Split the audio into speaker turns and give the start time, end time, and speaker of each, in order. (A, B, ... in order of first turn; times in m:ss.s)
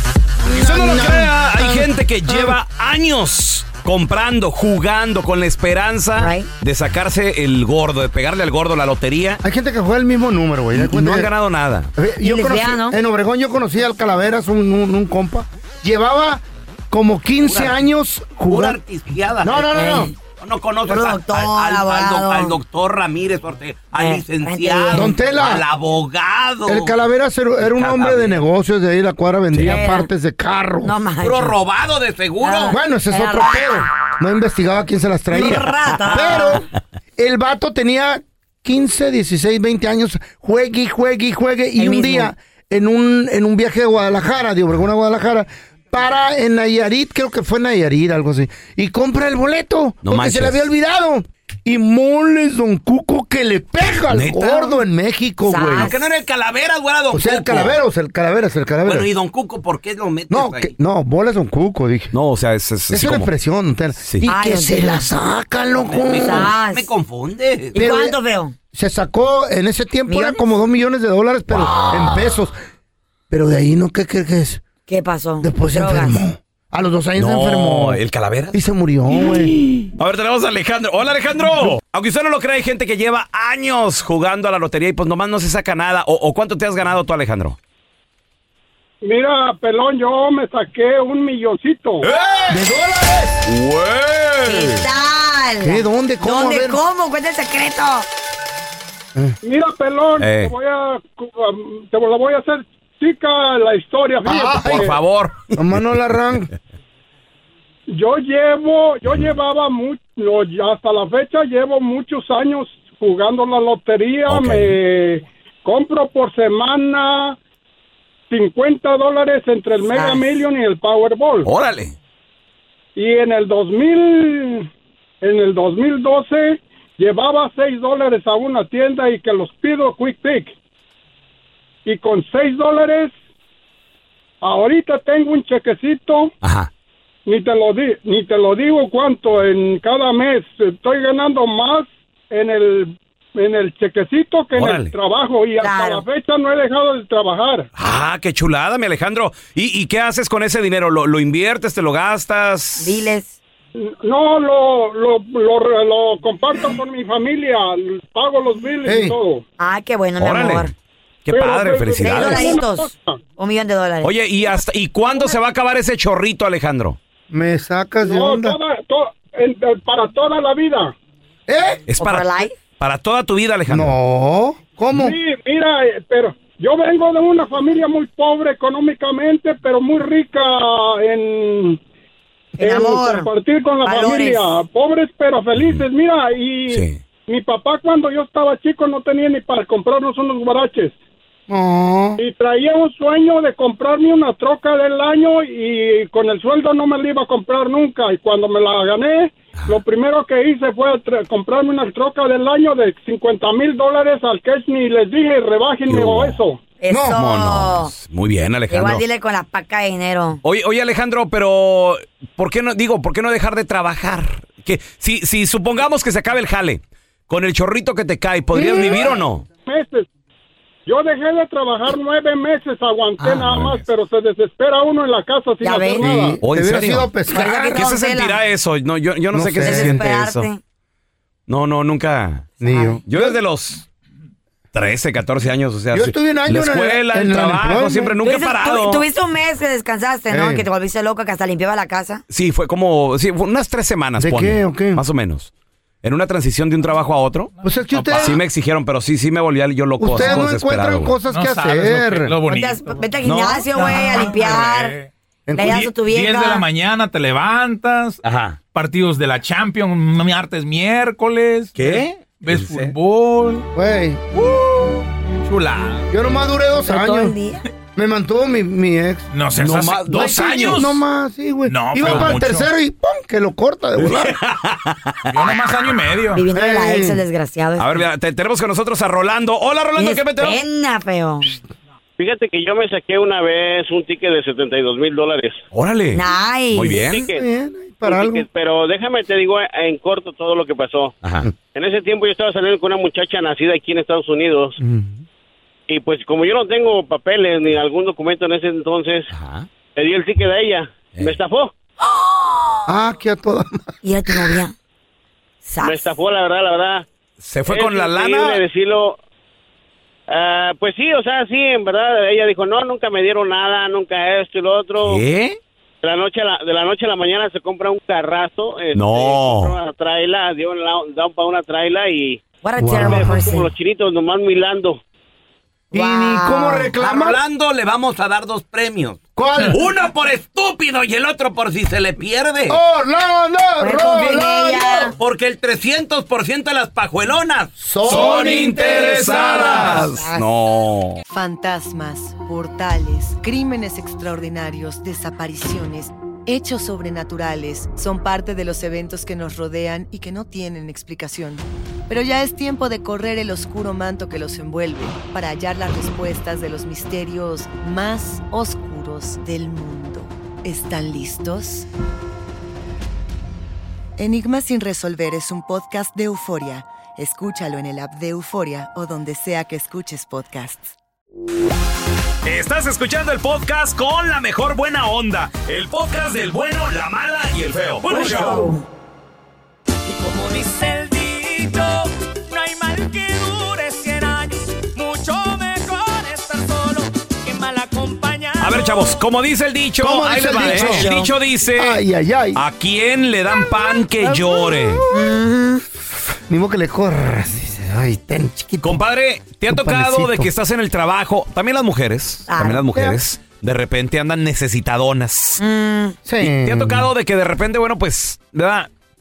0:00.5-0:02.6 A
0:00.5-0:09.4 B
0:06.2-0:06.5 C
0:09.4-0:11.3 A
0:10.8-0:11.9 B
0:12.0-0:18.8 A
0:12.2-0:13.0 C
0:17.4-0:17.8 D
0:18.5-0:19.6 D
0:19.4-0:20.1 A
0:19.7-0:20.1 C
0:20.4-0:26.9 D
0:20.9-0:22.6 C
0:24.0-0:25.1 C
0:24.9-0:25.6 A
0:26.7-0:30.9 A
0:29.6-0:30.1 C
0:30.8-0:31.6 C
0:31.2-0:32.8 D
0:32.4-0:33.7 C
0:32.7-0:55.9 A
0:35.3-0:36.6 C
0:41.8-0:42.3 C
0:50.0-0:50.7 B
0:54.1-0:54.8 B
0:55.5-0:56.0 C
0:55.9-0:56.2 B
0:55.9-0:57.5 D
0:57.1-0:59.1 A
0:57.4-0:57.7 B
0:58.9-1:00.7 D
1:00.3-1:02.1 A
1:02.1-1:03.3 B
1:02.9-1:06.5 A
1:04.2-1:05.1 C
1:05.9-1:07.7 D
1:06.2-1:06.9 C
1:07.7-1:08.6 C
1:07.8-1:08.2 A
1:08.7-1:12.6 A
1:10.1-1:10.4 C
1:11.5-1:12.3 B
1:13.3-1:14.6 A
1:14.9-1:16.2 C
1:15.4-1:18.0 A
1:17.2-1:18.6 B
1:18.5-1:19.6 A
1:19.9-1:27.6 B
1:29.0-1:32.1 E
1:32.0-1:32.6 B
1:32.5-1:33.4 A
1:33.5-1:34.8 B
1:34.4-1:38.1 C
1:35.6-1:36.8 A
1:39.4-1:45.0 E
1:40.2-1:40.5 B
1:44.2-1:44.9 A
1:44.6-1:45.5 B
1:45.5-1:46.5 A
1:47.9-1:57.4 E
1:54.3-1:54.7 B
1:58.3-2:01.5 E
2:01.5-2:01.9 B
2:03.0-2:04.7 E
2:05.2-2:10.5 E
2:11.8-2:13.1 E
2:14.4-2:16.3 E
2:16.4-2:16.7 B
2:17.3-2:27.7 E
2:24.6-2:24.9 B
2:25.6-2:26.0 C
2:27.8-2:33.0 B
2:32.8-2:33.4 C
2:33.8-2:39.4 E
2:38.8-2:39.2 A
2:39.6-2:40.7 C
2:40.2-2:40.7 B
2:41.3-2:42.5 B
2:41.3-2:43.2 E
2:42.0-2:44.1 C
2:44.0-2:47.0 B
2:47.3-2:48.6 A
2:48.0-2:51.0 E
2:51.5-2:51.9 A
2:51.9-2:54.0 B
2:52.0-2:52.5 C
2:53.7-2:55.2 A
2:54.9-3:01.8 E
3:02.6-3:03.3 C
3:02.6-3:11.0 E
3:03.8-3:04.4 C
3:05.6-3:05.8 B
3:06.7-3:07.0 B
3:11.5-3:12.2 A
3:12.2-3:26.6 E
3:25.9-3:26.4 B
3:26.8-3:27.9 C
3:26.9-3:27.2 A
3:27.1-3:29.0 B
3:28.7-3:30.4 C
3:30.4-3:39.4 B
3:38.5-3:39.2 A
3:39.7-3:40.1 E
3:40.9-3:46.4 E
3:43.2-3:43.8 B
3:45.6-3:46.1 C
3:46.0-3:47.8 A
3:46.4-3:50.5 B
3:47.3-3:48.4 C
3:49.3-3:50.0 A
3:49.6-3:50.6 C
3:51.5-3:52.5 B
3:52.6-3:53.4 A
3:52.6-3:53.0 C
3:53.1-3:53.9 B
3:54.7-3:59.0 B
3:55.9-3:58.2 A
3:58.2-4:02.2 C
4:00.3-4:00.7 A
4:02.3-4:05.5 B
4:04.2-4:05.0 A
4:06.0-4:07.5 B
4:07.6-4:08.4 A
4:07.7-4:08.4 F
4:08.1-4:11.2 B
4:10.0-4:12.4 A
4:11.3-4:18.2 F
4:12.5-4:15.0 C
4:13.2-4:13.7 B
4:15.5-4:15.9 A
4:15.6-4:16.6 C
4:18.2-4:18.6 B
4:18.7-4:23.7 F
4:21.8-4:23.0 B
4:23.8-4:24.4 A
4:25.4-4:26.1 F
4:26.1-4:27.4 A
4:26.9-4:27.6 C
4:28.0-4:29.3 A
4:29.3-4:31.0 F
4:29.6-4:30.9 B
4:30.0-4:34.4 A
4:31.7-4:32.7 F
4:32.0-4:32.4 B
4:34.0-4:35.3 B
4:35.3-4:36.4 F
4:36.3-4:37.9 C
4:36.5-4:37.2 A
4:37.8-4:40.6 B
4:40.0-4:41.6 C
4:42.2-4:45.6 G
4:45.7-4:47.3 B
4:46.1-4:47.0 C
4:47.0-4:47.4 G
4:47.3-4:48.4 A
4:48.0-4:54.8 G
4:51.2-4:51.5 B
4:54.8-4:55.2 A
4:55.9-4:59.3 G
4:59.3-4:59.7 B
5:00.0-5:01.7 G
5:02.2-5:02.6 C
5:02.9-5:04.6 A
5:04.0-5:04.7 C
5:05.6-5:06.0 C
5:05.8-5:07.0 G
5:07.4-5:08.6 B
5:07.7-5:09.2 G
5:10.3-5:15.2 G
5:15.0-5:15.6 B
5:16.0-5:22.4 G
5:18.9-5:19.8 B
5:22.6-5:23.7 C
5:22.8-5:23.4 A
5:23.0-5:25.0 G
5:25.9-5:27.4 A
5:25.9-5:26.9 C
5:27.0-5:29.2 D
5:29.4-5:29.8 A
5:29.7-5:32.8 D
5:32.7-5:35.1 A
5:33.8-5:35.1 C
5:35.2-5:37.7 D
5:37.8-5:40.1 A
5:38.0-5:41.2 B
5:39.2-5:40.4 C
5:41.3-6:01.9 H
6:04.2-6:10.9 H
6:12.4-6:18.7 B
6:18.1-6:18.8 C
6:20.1-6:29.2 I
6:28.6-6:32.0 B
6:30.0-6:31.1 A
6:30.6-6:31.3 C
6:31.8-6:32.6 A
6:32.6-6:35.0 B
6:34.2-6:35.3 A
6:35.1-6:35.8 C
6:36.5-6:39.0 A
6:38.8-6:45.6 B
6:39.7-6:40.5 A
6:42.5-6:42.8 C
6:45.6-6:46.2 C
6:46.2-6:47.1 A
6:46.4-6:48.9 B